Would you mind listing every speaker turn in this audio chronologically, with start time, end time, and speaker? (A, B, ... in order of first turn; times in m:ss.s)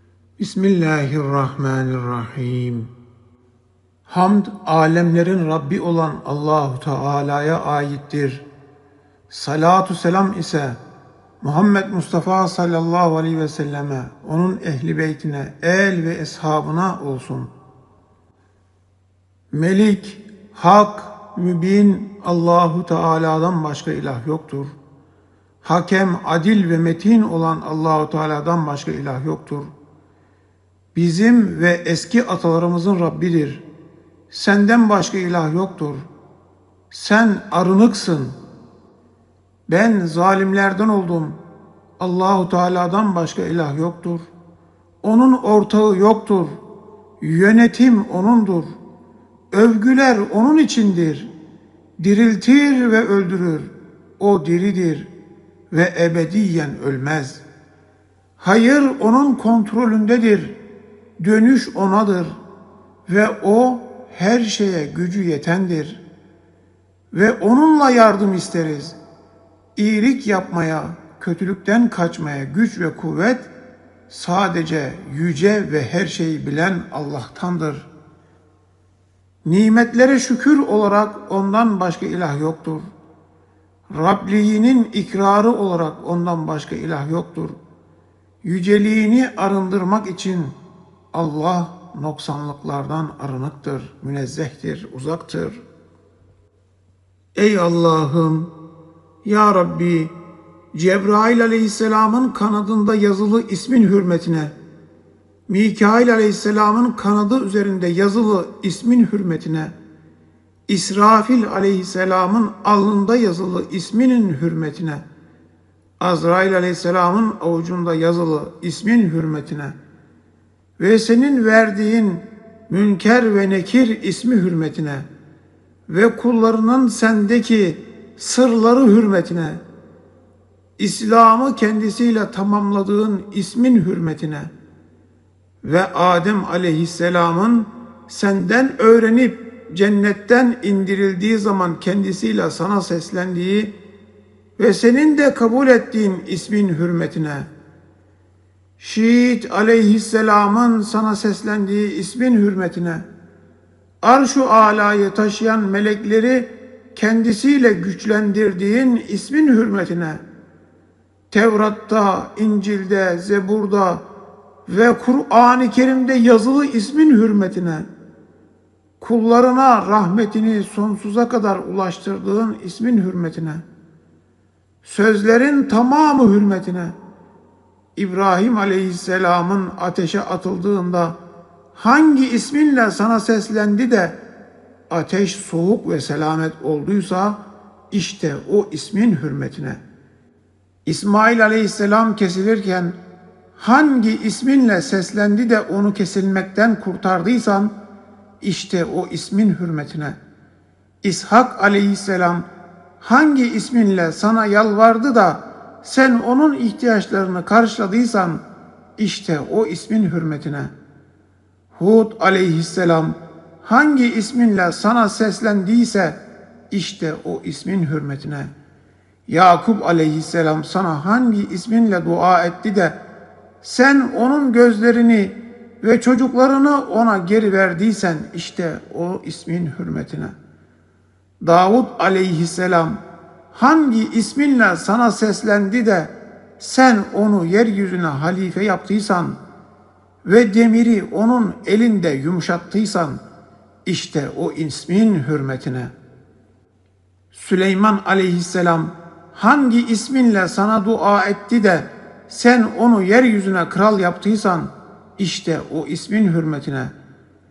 0:00.4-0:02.9 A
0:04.1-0:08.5 A
0:09.3-0:10.8 A
0:11.4-0:17.5 A
0:19.5-0:24.8 A
0:25.6-0:29.7 A
0:30.9-0:33.6 A
0:34.3-0:36.1 A
0:36.9-0:38.4 A
0:39.7-0:41.4 A
0:42.0-0:44.3 A
0:45.0-0:46.6 A
0:47.2-0:48.8 A
0:49.5-0:51.3 A
0:52.0-0:55.1 A
0:55.7-0:57.4 A
0:58.4-1:00.6 A
1:01.2-1:02.4 A
1:03.1-1:06.0 A
1:07.1-1:09.0 A
1:09.8-1:13.5 A
1:14.1-1:17.9 A
1:19.4-1:22.9 A
1:23.9-1:27.6 A
1:28.4-1:30.6 A
1:31.1-1:35.6 A
1:37.4-1:38.5 A
1:39.2-1:40.2 A
1:40.7-1:44.5 A
1:45.5-1:49.7 A
1:50.7-1:55.0 A
1:56.0-1:59.8 A
2:00.8-2:05.1 A
2:05.9-2:09.6 A
2:10.8-2:14.5 A
2:15.6-2:23.7 A
2:24.6-2:27.5 A
2:28.8-2:33.1 A
2:34.0-2:40.2 A
2:41.3-2:44.0 A
2:44.7-2:47.9 A
2:49.0-2:53.6 A
2:54.8-2:57.0 A
2:58.0-3:01.2 A
3:01.7-3:04.2 A
3:04.9-3:09.8 A
3:10.9-3:13.0 A
3:13.6-3:17.8 A
3:18.4-3:20.2 A
3:21.0-3:22.5 A
3:23.0-3:28.4 A
3:29.0-3:30.7 A
3:31.8-3:36.2 A
3:36.7-3:38.5 A
3:39.3-3:43.0 A
3:43.6-3:50.4 A
3:51.4-3:59.4 A
4:00.2-4:03.2 A
4:03.9-4:05.9 A
4:07.3-4:16.9 A